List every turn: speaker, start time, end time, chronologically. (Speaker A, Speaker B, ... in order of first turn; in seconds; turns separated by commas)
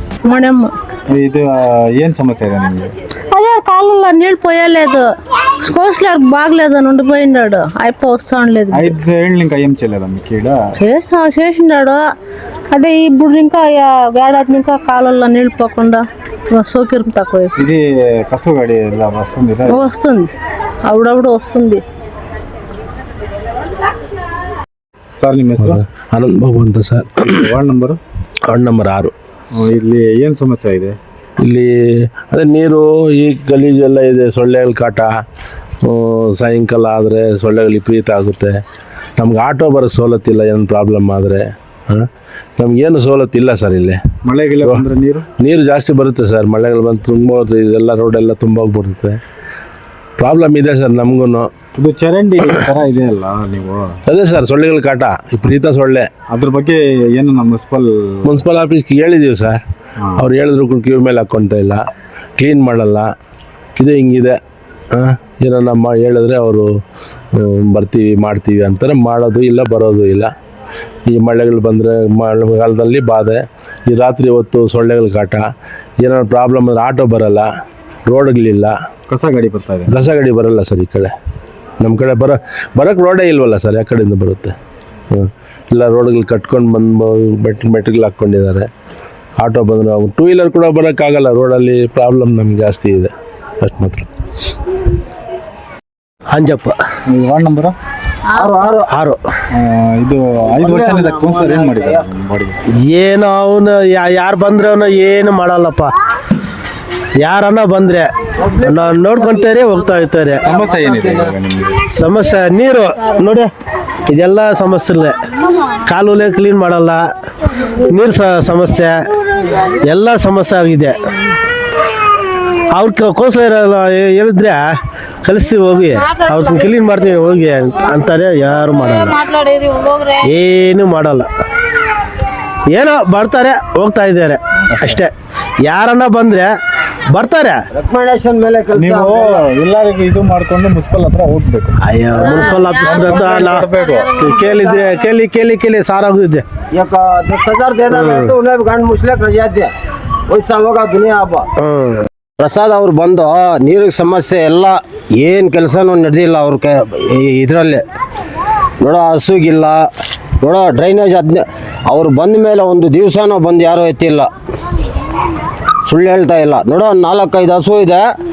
Speaker A: 0.3-0.7, Speaker B: 1.1-2.9, Speaker A: 3.3-5.1, Speaker A: 5.6-9.0, Speaker B: 8.7-10.6, Speaker A: 10.8-12.0, Speaker A: 12.7-17.5, Speaker B: 17.6-19.9, Speaker A: 19.7-20.3, Speaker A: 20.9-21.8, Speaker B: 25.2-25.8, Speaker C: 25.7-27.5, Speaker B: 27.4-28.0, Speaker C: 28.5-29.1, Speaker B: 29.6-31.0, Speaker C: 31.4-35.1, Speaker C: 35.8-38.6, Speaker C: 39.2-44.0, Speaker B: 44.3-45.2, Speaker C: 45.4-49.2, Speaker C: 50.2-51.5, Speaker B: 51.8-54.0, Speaker C: 54.1-56.1, Speaker B: 56.3-58.3, Speaker C: 58.3-59.6, Speaker B: 60.0-60.3, Speaker C: 60.2-61.8, Speaker C: 62.4-63.1, Speaker C: 63.8-64.4, Speaker C: 64.9-66.7, Speaker C: 67.3-70.3, Speaker C: 71.1-75.5, Speaker C: 76.0-77.5, Speaker C: 78.1-78.7, Speaker B: 79.1-80.0, Speaker C: 79.9-81.1, Speaker C: 81.8-84.5, Speaker C: 85.1-88.7, Speaker C: 89.4-94.1, Speaker D: 96.3-96.8, Speaker B: 97.1-97.8, Speaker E: 98.3-98.9, Speaker D: 98.9-99.2, Speaker B: 99.5-102.6, Speaker E: 100.8-101.7, Speaker D: 102.7-105.9, Speaker D: 107.2-110.5, Speaker B: 110.4-111.8, Speaker D: 111.9-113.5, Speaker D: 114.1-115.2, Speaker D: 115.8-117.0, Speaker D: 117.7-119.0, Speaker D: 119.7-121.1, Speaker D: 122.7-129.2, Speaker D: 130.2-131.3, Speaker D: 132.7-135.1, Speaker B: 134.8-135.0, Speaker D: 135.7-136.5, Speaker D: 137.2-137.6, Speaker E: 137.7-139.4, Speaker B: 138.7-141.8, Speaker D: 141.8-146.4, Speaker E: 142.3-142.6, Speaker B: 142.6-144.2, Speaker E: 146.7-149.7, Speaker D: 147.9-148.3, Speaker E: 150.3-151.5, Speaker D: 151.6-152.1, Speaker E: 152.4-157.8, Speaker E: 158.8-159.9, Speaker E: 160.4-164.3, Speaker E: 165.8-168.1